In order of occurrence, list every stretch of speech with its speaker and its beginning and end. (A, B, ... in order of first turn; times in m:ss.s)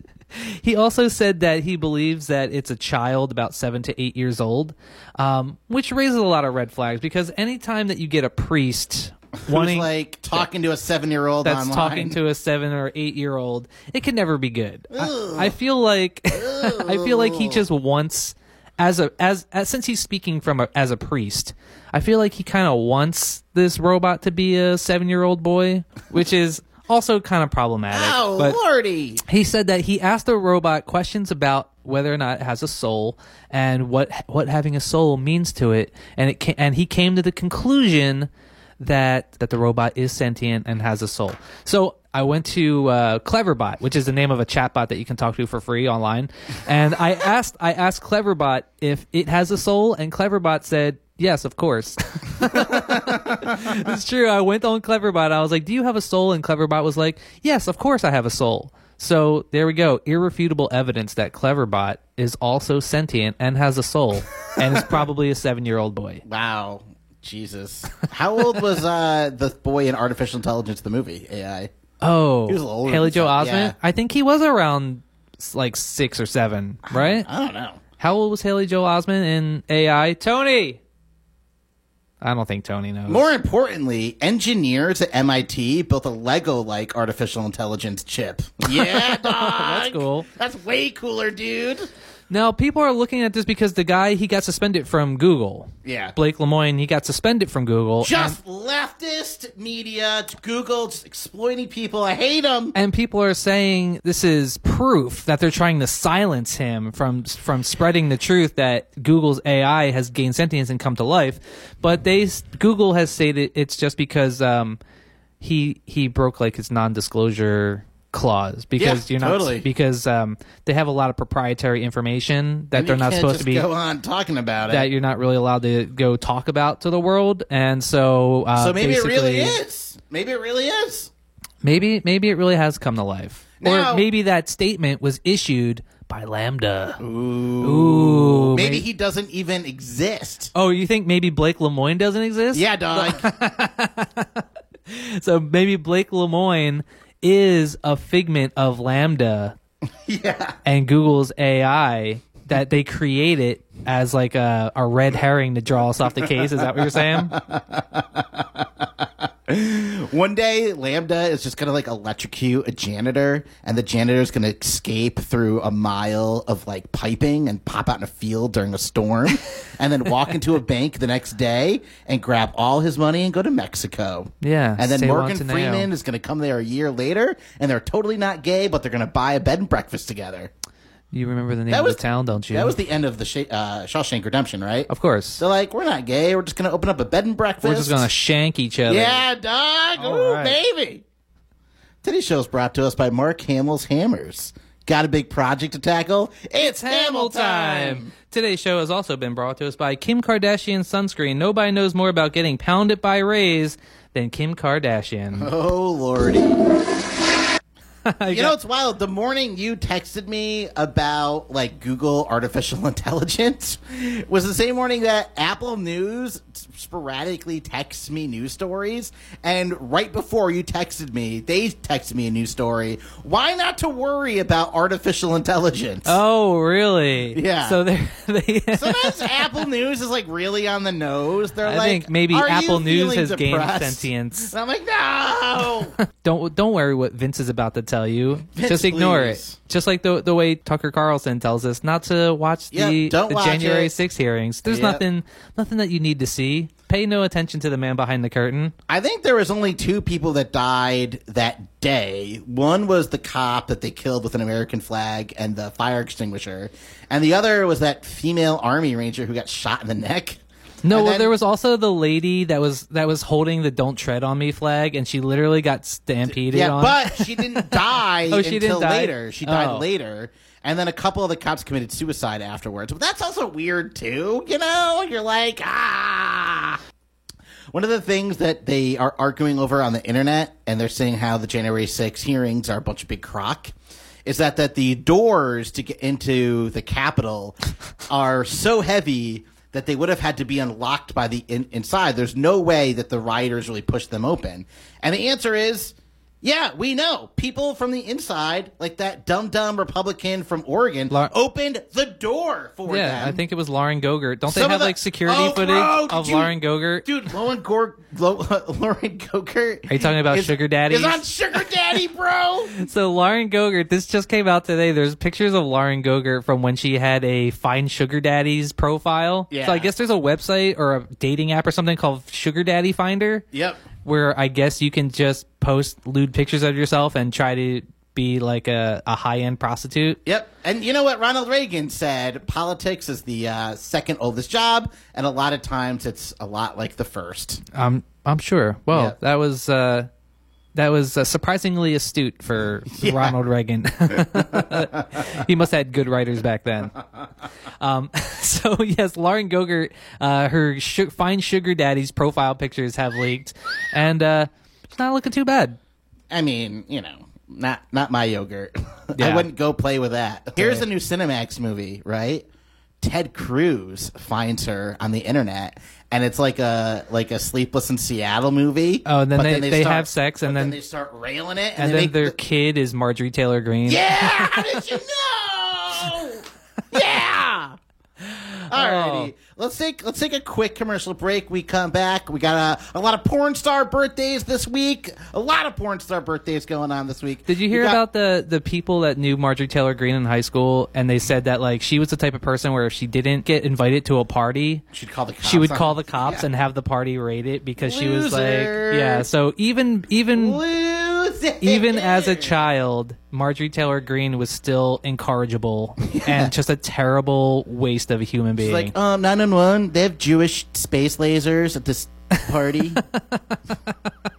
0:00.4-0:10.4 A
0:09.4-0:12.2 B
0:11.4-0:28.6 A
0:14.9-0:15.6 B
0:16.3-0:17.6 B
0:27.9-0:29.2 B
0:29.2-1:06.2 A
0:52.5-0:53.6 B
1:06.2-1:11.7 B
1:12.0-1:17.3 A
1:12.5-1:13.8 B
1:16.9-1:17.8 B
1:18.0-1:20.8 A
1:22.2-1:23.2 A
1:23.1-1:31.9 B
1:28.7-1:30.3 A
1:32.3-1:38.4 A
1:35.8-1:36.2 B
1:38.0-1:42.8 B
1:42.8-1:54.8 A
1:55.4-2:03.7 A
1:58.8-1:59.7 B
2:02.7-2:04.9 B
2:04.7-2:09.6 A
2:08.6-2:11.1 B
2:11.6-2:17.0 A
2:13.6-2:14.1 B
2:17.0-2:20.5 B
2:17.6-2:18.8 A
2:20.5-2:29.6 A
2:22.5-2:23.3 B
2:30.0-2:30.6 B
2:30.6-2:37.4 A
2:36.2-3:00.5 B
2:54.4-2:55.9 A
3:01.1-3:02.8 A
3:01.7-3:02.0 B
3:02.5-3:08.1 B
3:04.9-3:05.4 A
3:07.6-3:09.2 A
3:08.9-3:11.0 B
3:10.0-3:10.6 A
3:12.0-3:18.1 B
3:16.6-3:25.5 A
3:25.4-3:26.6 B
3:28.1-3:28.6 A
3:28.3-3:46.2 B
3:46.0-3:49.6 A
3:47.3-3:47.8 B
3:48.7-3:56.0 B
3:51.6-3:54.5 A
3:56.2-4:08.7 A
3:58.6-3:59.6 B
4:02.7-4:03.9 B
4:04.6-4:05.0 B
4:08.9-4:21.3 B
4:20.8-4:29.9 A
4:26.3-4:36.8 B
4:37.7-4:43.7 B
4:44.2-4:47.6 B
4:48.1-5:03.4 B
5:02.9-5:07.1 A
5:04.5-5:12.8 B
5:09.9-5:11.2 A
5:12.8-5:23.4 A
5:19.5-5:19.9 B
5:23.5-5:23.8 B
5:24.0-5:30.2 A
5:30.3-5:37.6 B
5:37.7-5:40.1 A
5:38.9-5:39.2 B
5:40.8-5:47.0 A
5:42.9-5:43.4 B
5:44.2-5:45.2 B
5:47.8-5:55.8 A
5:56.3-6:02.5 B
5:59.2-5:59.5 A
6:00.6-6:00.8 A
6:03.0-6:12.4 B
6:09.0-6:10.8 A
6:11.8-6:14.8 A
6:13.9-6:17.8 B
6:18.7-6:28.0 B
6:18.7-6:19.3 A
6:27.5-6:34.8 A
6:34.9-6:36.5 B
6:35.4-6:40.6 A
6:37.8-6:39.3 B
6:40.3-6:42.7 B
6:41.6-6:48.9 A
6:46.1-6:46.5 B
6:48.6-6:53.0 B
6:52.4-6:53.6 A